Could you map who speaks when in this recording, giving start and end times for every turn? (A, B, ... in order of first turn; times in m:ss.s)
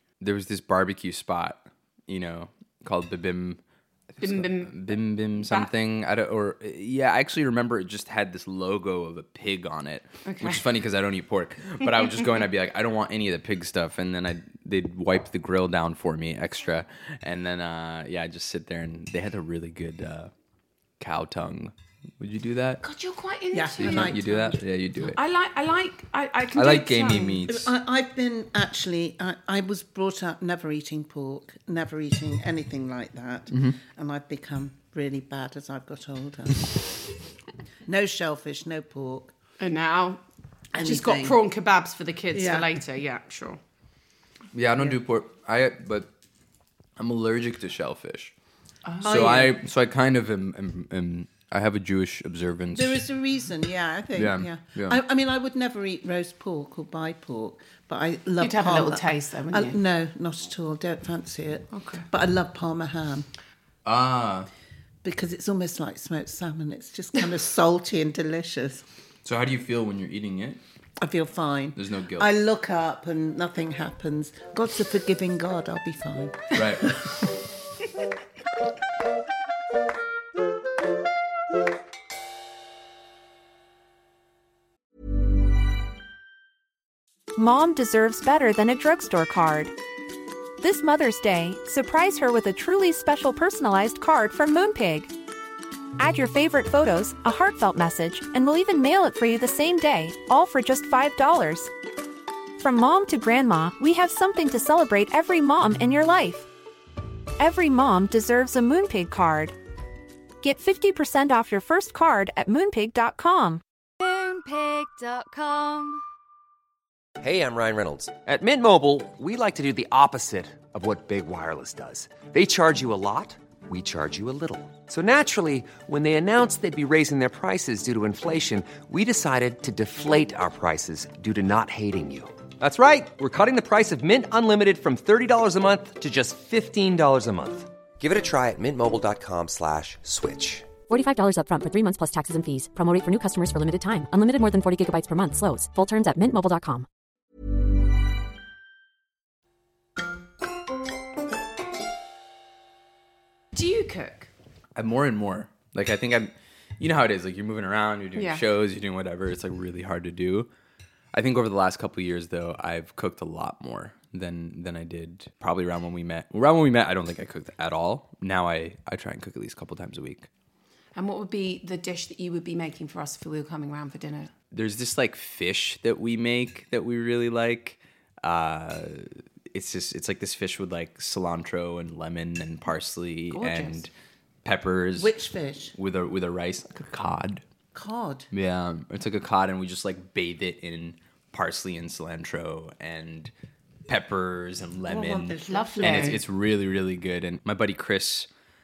0:00.2-0:03.6 A
0:04.1-0:20.3 A
0:04.2-0:05.7 B
0:10.2-0:10.6 B
0:21.0-0:22.8 A
0:22.8-0:24.2 B
0:23.5-0:24.6 C
0:23.8-0:25.2 A
0:25.1-0:27.4 B
0:26.5-0:27.7 A
0:27.5-0:37.0 C
0:33.5-0:33.8 A
0:37.9-0:39.3 C
0:39.6-0:40.2 B
0:40.7-0:41.4 C
0:40.8-0:43.6 B
0:42.3-0:42.7 C
0:44.5-0:46.1 A
0:47.0-0:48.3 A
0:48.8-0:49.4 B
0:49.0-0:53.0 A
0:49.0-0:49.6 C
0:52.7-1:03.3 C
0:54.2-0:55.0 A
0:58.4-0:59.8 B
1:01.7-1:02.1 B
1:03.8-1:04.5 A
1:05.0-1:08.8 C
1:09.2-1:10.6 A
1:11.0-1:16.6 C
1:11.8-1:12.3 A
1:16.5-1:17.3 A
1:27.4-1:29.7 D
1:30.6-1:35.1 D
1:36.0-1:41.7 D
1:42.6-1:46.5 D
1:47.4-1:49.6 D
1:50.4-1:53.6 D
1:54.0-1:56.0 E
1:57.2-2:20.7 F
2:20.9-2:26.9 G
2:33.5-2:34.3 B
2:34.8-2:40.5 A
2:38.2-2:38.4 B
2:41.1-2:50.3 A
2:51.0-2:54.3 B
2:54.5-3:03.9 A
3:03.3-3:03.8 B
3:04.4-3:05.1 A
3:05.0-3:05.8 C
3:05.8-3:07.4 A
3:07.7-3:08.3 C
3:08.3-3:13.3 A
3:13.9-3:18.3 A
3:14.9-3:16.2 C
3:15.5-3:16.2 B